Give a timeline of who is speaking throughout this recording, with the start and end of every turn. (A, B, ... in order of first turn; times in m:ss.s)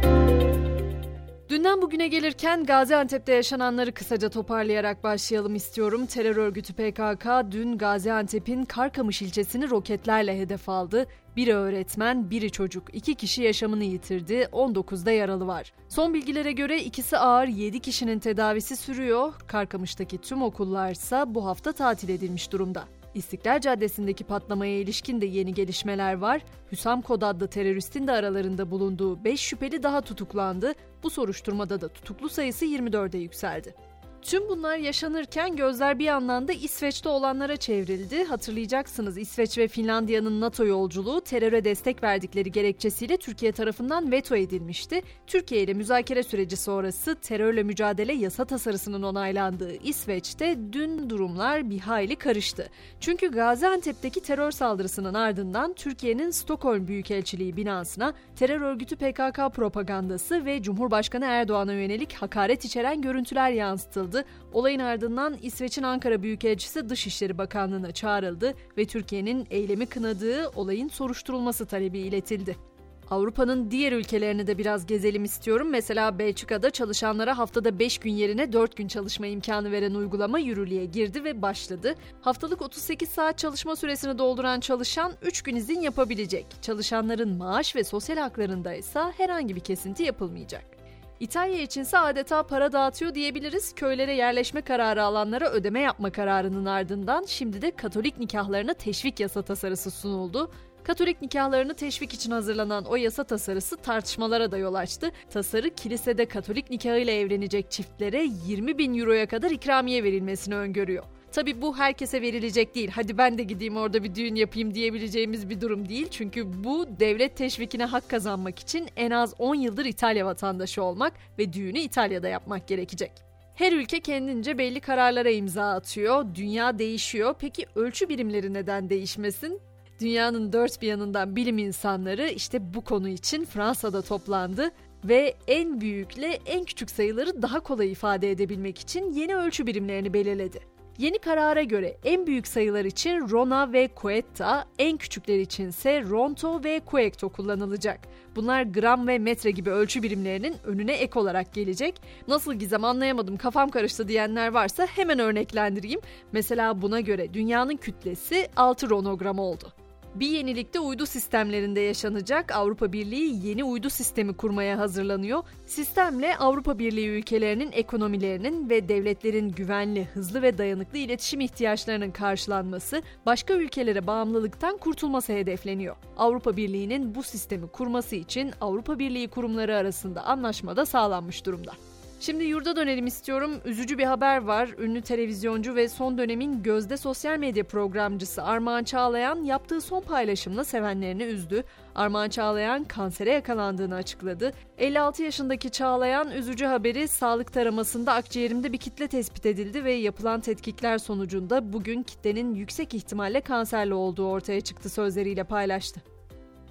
0:01.5-3:26.0 A